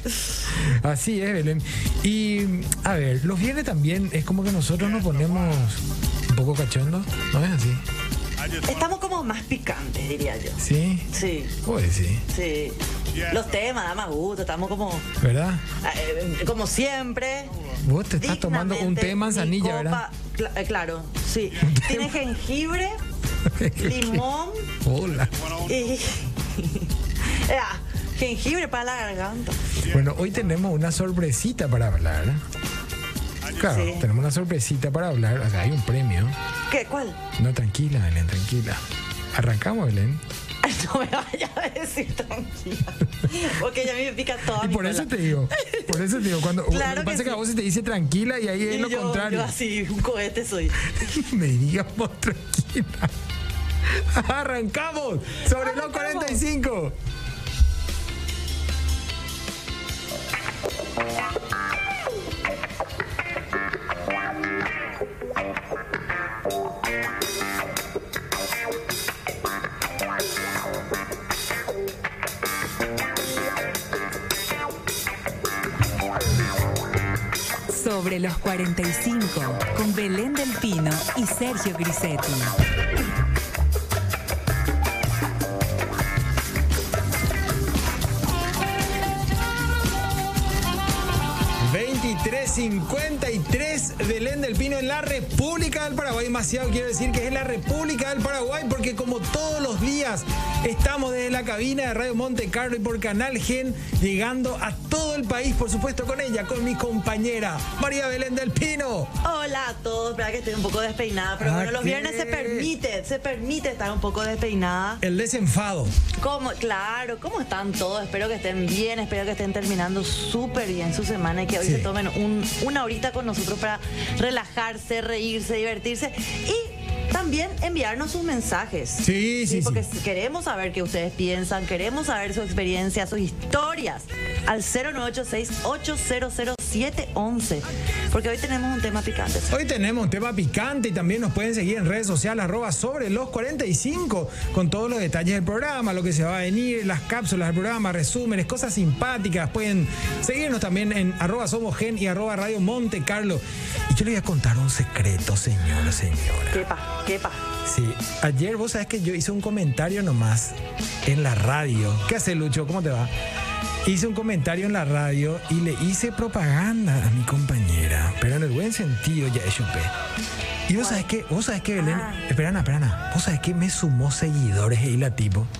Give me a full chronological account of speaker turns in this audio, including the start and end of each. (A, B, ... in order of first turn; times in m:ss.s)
0:00.5-0:07.8 A
0:08.6-0:11.6 B
0:10.6-0:12.3 A
0:12.3-0:15.1 B
0:15.2-0:15.6 A
0:15.8-0:17.5 B
0:17.8-0:20.0 A
0:18.2-0:23.0 B
0:21.7-0:22.1 A
0:23.5-0:24.2 A
0:23.8-0:24.7 B
0:24.8-0:25.5 A
0:25.6-0:29.6 B
0:29.8-0:32.4 A
0:33.5-0:36.4 A
0:33.6-0:34.1 B
0:36.7-0:37.2 B
0:37.4-0:38.8 A
0:39.3-0:40.2 A
0:40.6-0:47.4 B
0:44.5-0:49.5 A
0:48.6-0:50.8 B
0:50.9-0:53.1 A
0:53.8-0:57.0 A
0:55.6-0:56.4 B
1:17.7-1:22.6 C
1:31.6-1:49.2 A
1:49.2-1:55.0 B
1:51.4-1:52.7 A
1:55.0-1:56.0 A
1:56.2-2:19.5 B
2:01.6-2:01.9 A
2:09.0-2:09.9 A
2:19.5-2:36.6 A
2:36.5-2:37.4 B
2:37.6-2:43.1 A
2:43.8-2:49.9 A
2:50.7-2:55.5 A
2:50.8-2:51.0 B
2:51.8-2:52.2 B